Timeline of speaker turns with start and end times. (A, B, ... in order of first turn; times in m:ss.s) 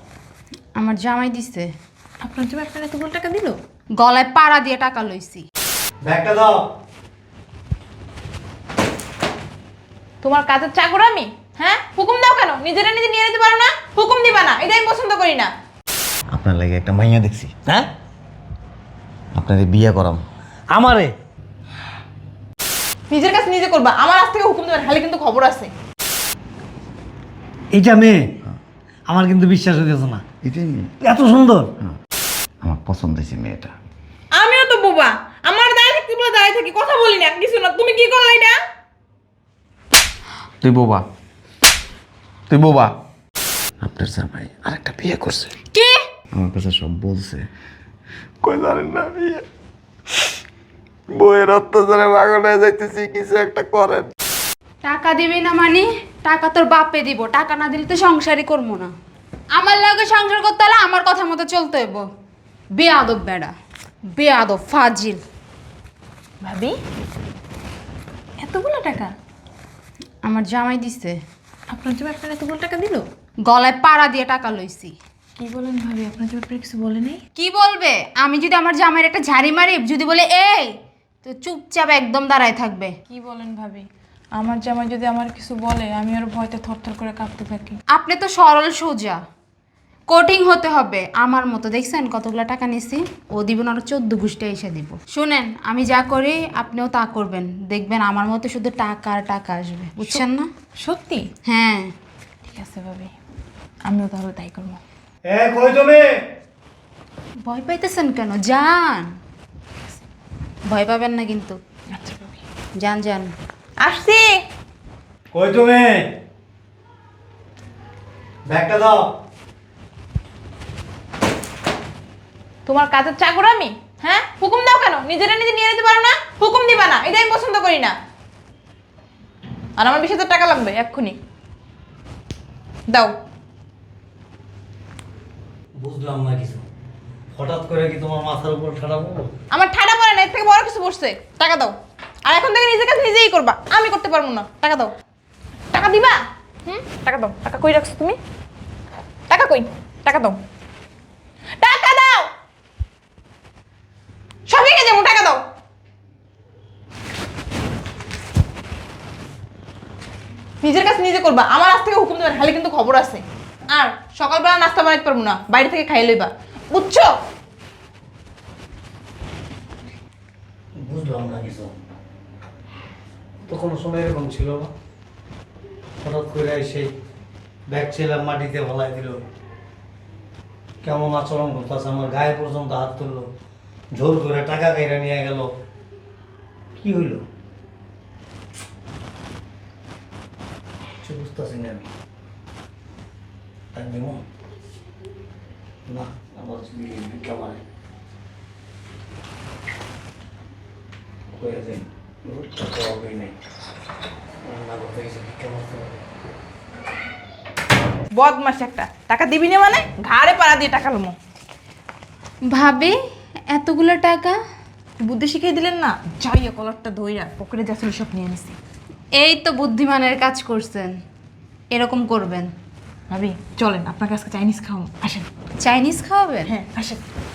0:00.8-0:01.7 A
0:02.2-0:03.6 B
0:04.0-0:05.5 A
0:06.0-0:06.6 C
0:10.2-0:15.5 B
0:16.3-0:17.5 D
0:19.4-0:20.2 D
0:20.7-0:21.1 C
0:23.1-0:25.7 B
0:27.7-0:28.4 C
0:29.1-0:30.2 C
0:30.4-0:30.9 D
0:31.0-0:31.7 C
0:32.6-0:33.7 D
0:34.3-0:38.5 B
0:40.6-0:41.0 D
0:42.5-0:42.9 D
0:43.8-0:45.6 D
0:45.7-0:46.0 A
0:46.3-0:47.4 D
0:48.4-0:49.4 D
0:51.1-0:54.1 D
0:54.8-0:58.9 A
0:59.6-1:02.0 A
1:02.8-1:03.5 A
1:04.1-1:05.2 A
1:06.4-1:06.8 B
1:08.4-1:09.1 B
1:10.2-1:11.2 A
1:11.7-1:13.0 B
1:13.5-1:15.0 A
1:15.4-1:17.2 B
1:17.4-1:20.7 A
1:21.2-1:22.9 A
1:23.1-1:27.8 B
1:27.9-1:29.2 A
1:30.1-1:40.5 A
1:40.8-1:41.3 B
1:41.5-1:41.9 A
1:42.4-1:43.1 B
1:43.9-1:44.8 B
1:45.2-1:46.3 C
1:47.4-1:49.1 A
1:50.7-1:51.6 A
1:51.9-1:52.4 B
1:52.8-1:53.3 A
1:53.8-1:54.4 B
1:55.3-1:56.2 C
1:58.5-1:59.1 C
2:02.7-2:08.0 B
2:09.8-2:11.2 B
2:15.8-2:16.6 C
2:17.3-2:19.3 C
2:19.5-2:21.7 B
2:22.3-2:24.9 B
2:25.7-2:28.2 B
2:29.3-2:30.4 B
2:31.6-2:32.3 B
2:34.5-2:35.4 B
2:40.6-2:47.2 B
2:50.8-2:51.8 C
2:53.4-2:54.7 C
2:56.0-2:56.9 C
2:57.7-2:59.2 C
3:00.8-3:03.3 C
3:03.9-3:05.5 C
3:06.8-3:07.2 C
3:11.0-3:11.9 C
3:13.7-3:14.3 C
3:15.9-3:17.6 C
3:21.3-3:23.4 C
3:24.4-3:26.0 C
3:28.1-3:31.2 B
3:32.5-3:33.0 A
3:33.5-3:34.4 A
3:35.0-3:38.6 B
3:39.2-3:40.9 A
3:41.7-3:42.5 A
3:43.1-3:45.3 B
3:45.6-3:46.5 A
3:46.5-3:47.0 B